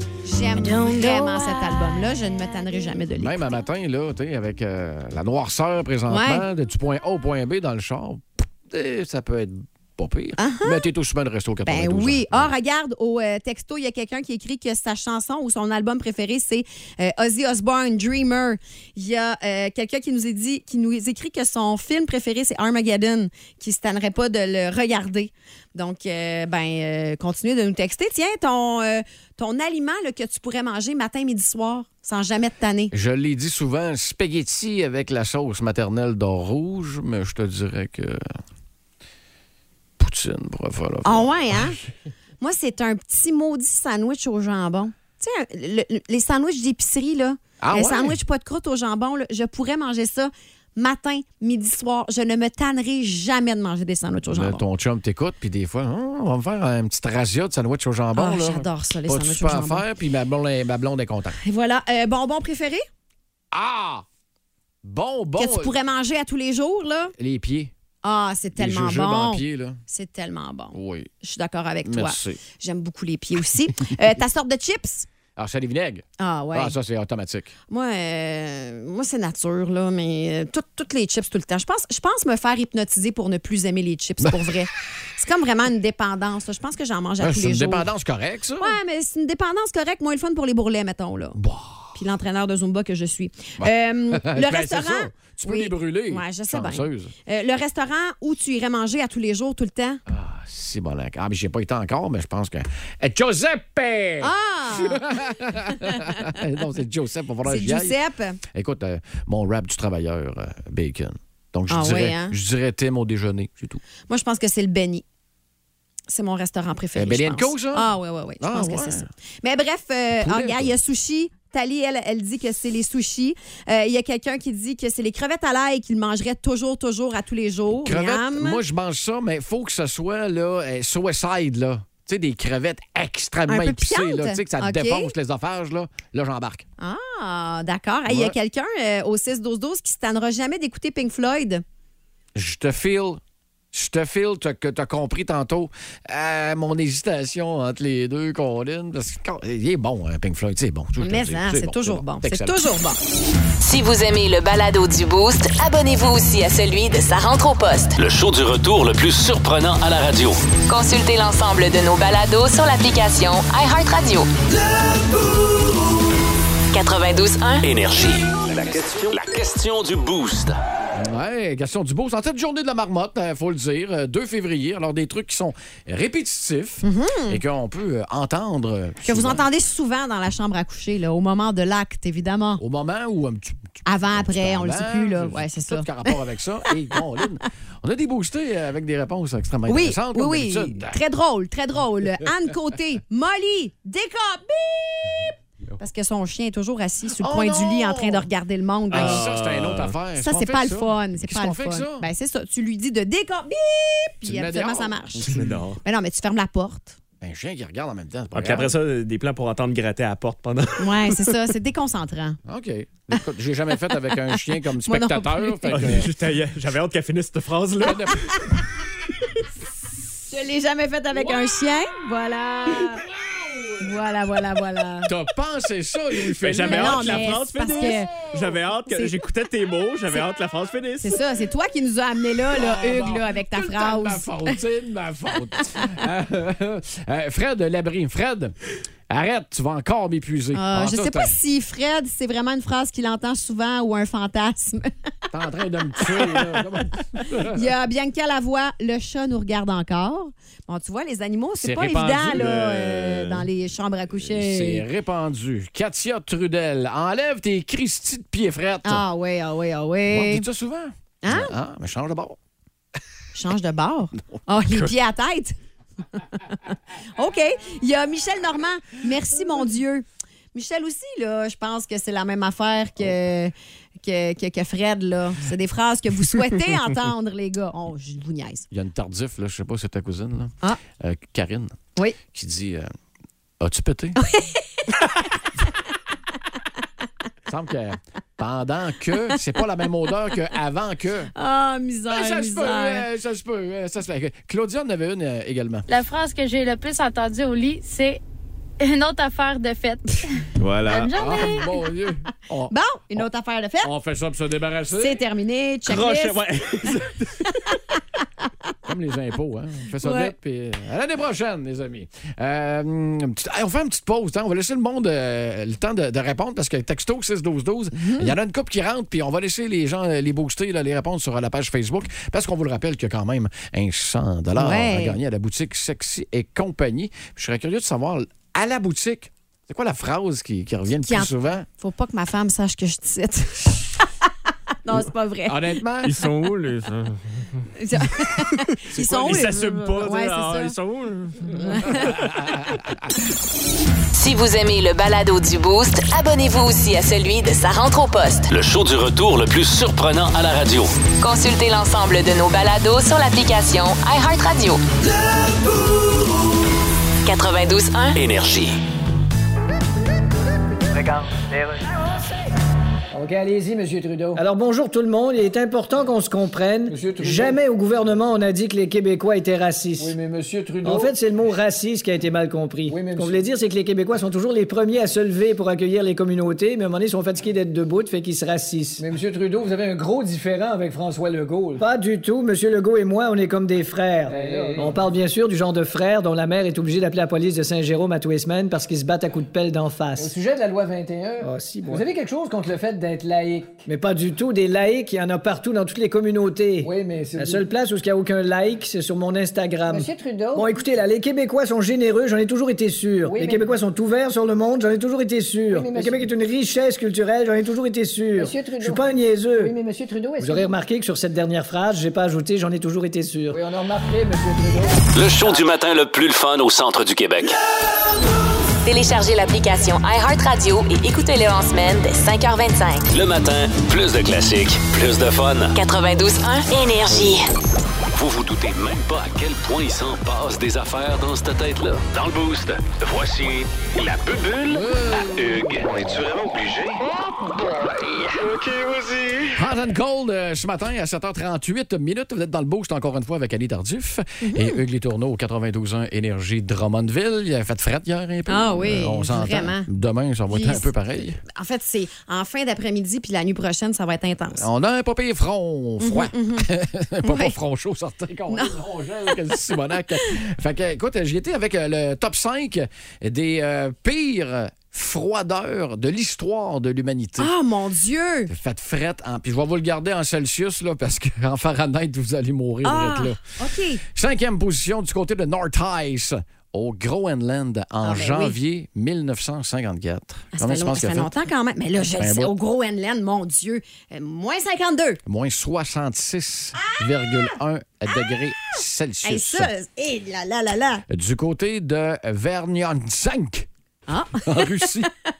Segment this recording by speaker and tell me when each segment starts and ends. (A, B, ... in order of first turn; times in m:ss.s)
0:00.2-0:03.5 A
0:03.2-0:12.5 B
0:06.1-0:06.4 A
0:10.4-0:10.9 A
0:11.6-0:32.9 A
0:32.9-0:38.4 B
0:40.0-0:41.3 B
0:41.0-0:41.8 A
0:42.4-0:54.6 A
0:47.6-0:48.2 B
0:54.3-1:01.4 B
0:58.2-0:59.8 A
1:01.4-1:02.8 A
1:03.5-1:04.0 B
1:04.8-1:05.8 B
1:05.4-1:07.1 A
1:07.2-1:07.7 B
1:08.0-1:15.1 A
1:08.6-1:09.8 B
1:10.7-1:11.1 B
1:11.8-1:12.4 B
1:15.4-1:17.5 B
1:16.2-1:16.8 A
1:17.7-1:27.9 A
1:27.2-1:28.8 B
1:28.6-1:31.4 A
1:31.4-1:32.0 B
1:32.0-1:40.0 A
1:33.6-1:37.1 B
1:40.1-1:48.0 B
1:44.2-1:45.2 A
1:47.5-1:48.4 A
1:48.5-1:53.8 B
1:51.7-1:52.4 A
1:54.1-1:55.0 A
1:56.1-2:08.6 A
1:57.0-1:57.9 B
1:58.4-1:59.1 B
2:00.2-2:00.7 B
2:07.7-2:16.6 B
2:13.5-2:15.1 A
2:16.8-2:21.6 A
2:18.1-2:18.4 B
2:22.4-2:23.2 B
2:23.7-2:32.6 B
2:31.0-2:33.0 A
2:33.6-2:38.0 C
2:38.0-2:40.4 D
2:40.7-2:44.3 C
2:46.7-2:47.6 C
2:47.6-2:50.6 D
2:50.9-2:59.4 B
2:56.8-2:57.4 A
2:59.1-3:02.6 A
3:02.6-3:11.0 B
3:03.8-3:06.2 A
3:09.7-3:19.3 A
3:17.2-3:18.3 B
3:18.9-3:22.1 B
3:18.9-3:20.0 E
3:20.2-3:27.0 A
3:24.2-3:25.6 B
3:25.3-3:25.8 E
3:27.2-3:28.7 B
3:28.3-3:31.3 E
3:30.8-3:32.4 A
3:32.5-3:36.1 B
3:33.8-3:36.0 A
3:35.7-3:38.2 E
3:37.8-3:38.3 B
3:40.3-3:43.0 A
3:43.8-3:45.1 A
3:45.1-3:47.3 B
3:46.4-3:51.2 E
3:46.6-3:48.3 A
3:48.9-3:49.2 A
3:51.0-3:54.6 A
3:52.5-3:58.6 B
3:59.1-4:01.3 B
4:00.5-4:04.9 A
4:05.3-4:07.6 B
4:06.1-4:06.5 A
4:07.5-4:14.8 A
4:11.6-4:12.6 B
4:12.3-4:13.5 E
4:14.1-4:19.0 B
4:18.8-4:20.5 A
4:20.1-4:22.4 B
4:21.2-4:21.6 A
4:23.3-4:25.6 A
4:26.2-4:38.6 A
4:38.7-4:42.9 B
4:43.6-4:44.2 B
4:44.2-4:45.2 A
4:47.5-4:51.3 B
4:51.4-4:53.0 A
4:52.1-4:55.9 B
4:55.9-4:58.2 F
4:58.8-5:01.7 F
5:00.6-5:01.1 E
5:00.9-5:03.3 B
5:02.7-5:03.9 A
5:03.8-5:05.2 B
5:04.9-5:06.4 A
5:05.9-5:07.5 E
5:08.9-5:31.7 B
5:10.0-5:10.3 A
5:18.0-5:18.3 A
5:24.6-5:25.2 A
5:31.0-5:34.1 A
5:34.8-5:35.8 A
5:35.5-5:36.1 B
5:36.0-5:37.7 E
5:37.8-5:40.8 A
5:38.9-5:42.2 E
5:41.6-5:42.3 A
5:42.2-5:42.9 B
5:44.1-5:48.5 C
5:48.5-5:50.9 D
5:51.2-5:54.8 C
5:57.2-5:58.2 C
5:58.2-5:58.8 D
6:00.9-6:01.8 G
6:03.1-6:04.4 G
6:04.4-6:10.2 H
6:06.9-6:07.6 G
6:10.0-6:11.1 G
6:10.8-6:19.0 H
6:12.9-6:13.4 G
6:19.0-6:21.8 G
6:21.8-6:30.3 H
6:24.3-6:25.0 G
6:30.2-6:33.8 G
6:31.4-6:32.0 H
6:33.9-6:49.8 H
6:36.8-6:37.7 G
6:39.9-6:40.7 G
6:43.3-6:43.8 G
6:45.7-6:46.3 G
6:48.4-6:50.7 G
6:50.4-6:53.6 H
6:53.5-6:55.0 G
6:55.1-6:57.6 D
6:58.8-7:03.1 C
7:03.1-7:05.8 D
7:05.8-7:07.5 C
7:08.1-7:17.0 D
7:14.6-7:15.6 B
7:19.6-7:31.4 B
7:24.4-7:24.8 A
7:28.5-7:29.9 A
7:30.5-7:30.9 A
7:31.5-7:34.6 A
7:34.5-7:47.5 B
7:36.0-7:36.7 A
7:37.2-7:37.6 A
7:38.5-7:38.8 A
7:47.4-7:48.5 A
7:48.5-7:53.4 B
7:52.8-7:54.0 A
7:54.0-8:01.3 B
7:58.0-7:58.6 A
8:00.6-8:05.2 A
8:02.0-8:02.5 B
8:05.2-8:09.7 B
8:06.8-8:07.5 A
8:09.2-8:11.0 A
8:11.1-8:13.7 B
8:14.1-8:14.8 A
8:14.3-8:15.1 B